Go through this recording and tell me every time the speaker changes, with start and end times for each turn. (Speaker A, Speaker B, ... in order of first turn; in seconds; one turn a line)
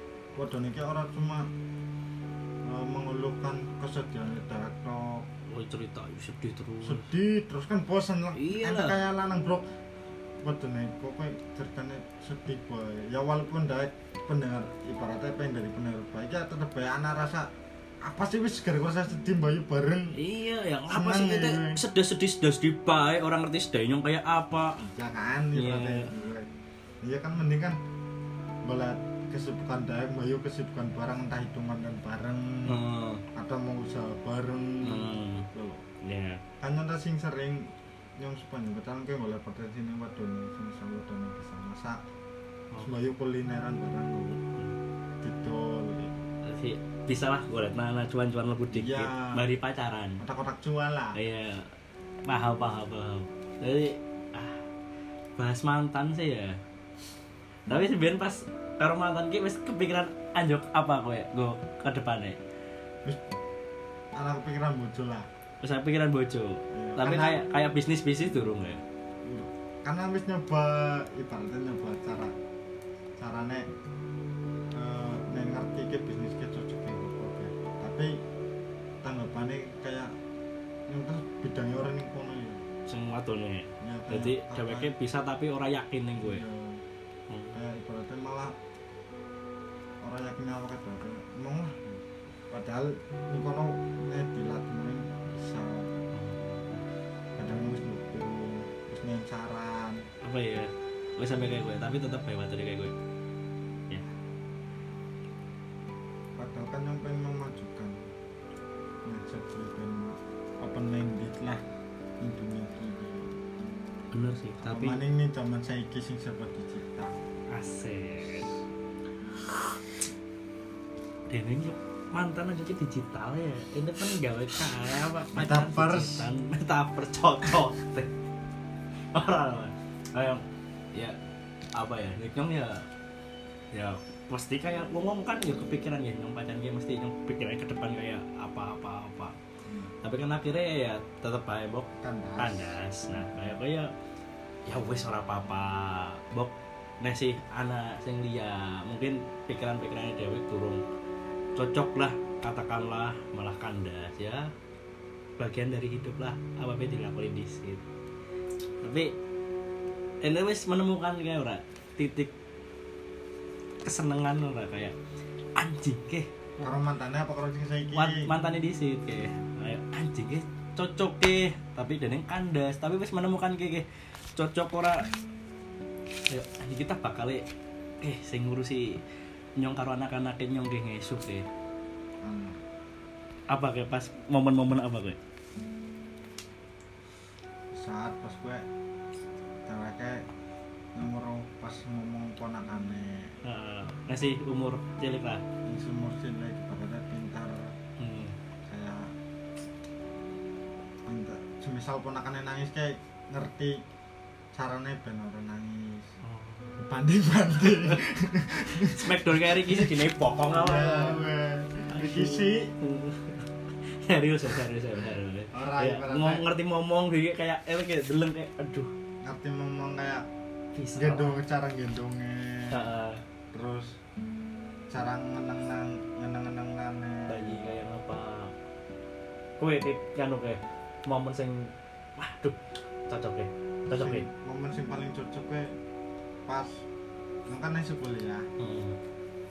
Speaker A: 0.3-1.5
Speaker A: 2.6-5.3
Speaker B: 5.5-7.1
Speaker A: 6.8-9.7
Speaker B: 8.3-9.0
Speaker A: 10.4-17.5
Speaker A: 18.0-20.1
Speaker B: 20.1-24.8
Speaker A: 20.9-21.8
Speaker A: 24.8-26.5
Speaker B: 25.5-26.1
Speaker A: 27.0-27.8
Speaker A: 28.6-32.8
Speaker B: 32.6-33.2
Speaker A: 33.3-35.8
Speaker B: 34.8-35.5
Speaker B: 36.0-36.4
Speaker A: 36.6-42.0
Speaker A: 42.8-44.4
Speaker A: 45.2-46.1
Speaker B: 46.4-50.2
Speaker A: 48.7-49.4
Speaker A: 50.2-51.2
Speaker B: 51.1-51.7
Speaker B: 52.3-54.6
Speaker B: 55.4-56.6
Speaker B: 57.7-62.4
Speaker A: 64.2-65.3
Speaker B: 65.6-68.8
Speaker A: 66.7-67.4
Speaker A: 69.2-72.3
Speaker A: 73.2-73.7
Speaker A: 74.7-78.1
Speaker A: 79.0-80.1
Speaker A: 80.9-82.6
Speaker B: 82.9-86.4
Speaker A: 83.8-84.9
Speaker A: 86.2-86.8
Speaker B: 87.3-87.6
Speaker A: 87.5-88.6
Speaker A: 90.0-96.0
Speaker B: 96.1-96.8
Speaker A: 97.4-100.0
Speaker B: 100.2-102.9
Speaker A: 106.4-108.1
Speaker A: 109.0-111.6
Speaker A: 112.2-113.4
Speaker B: 114.1-115.0
Speaker A: 114.6-117.2
Speaker B: 117.5-118.5
Speaker B: 121.3-128.1
Speaker A: 125.3-126.3
Speaker B: 129.1-131.2
Speaker B: 131.8-132.9
Speaker B: 133.7-139.4
Speaker A: 139.7-139.9
Speaker B: 140.0-143.9
Speaker A: 142.0-143.4
Speaker B: 144.7-150.8
Speaker B: 151.6-154.5
Speaker B: 155.4-157.8
Speaker B: 158.8-159.1
Speaker B: 160.2-162.3
Speaker B: 163.8-164.9
Speaker B: 165.6-166.3
Speaker A: 166.6-168.3
Speaker B: 167.9-175.1
Speaker B: 176.3-177.4
Speaker B: 178.0-179.0
Speaker B: 179.6-181.4
Speaker A: 182.2-182.6
Speaker B: 183.5-185.2
Speaker A: 187.7-188.7
Speaker A: 189.7-190.2
Speaker A: 190.9-193.4
Speaker B: 193.4-195.4
Speaker A: 195.7-197.7
Speaker B: 198.0-198.4
Speaker A: 198.7-199.1
Speaker A: 201.1-203.8
Speaker A: 204.5-206.1
Speaker B: 206.2-206.8
Speaker A: 206.8-209.9
Speaker B: 208.7-211.3
Speaker A: 210.5-212.7
Speaker B: 211.9-218.9
Speaker A: 215.5-216.5
Speaker A: 219.2-220.2
Speaker B: 220.8-221.4
Speaker A: 220.9-222.9
Speaker B: 222.7-223.2
Speaker A: 223.5-224.0
Speaker A: 224.9-227.6
Speaker B: 227.3-228.5
Speaker B: 229.6-234.3
Speaker A: 233.9-235.7
Speaker A: 236.4-236.8
Speaker A: 237.5-238.5
Speaker B: 238.6-239.0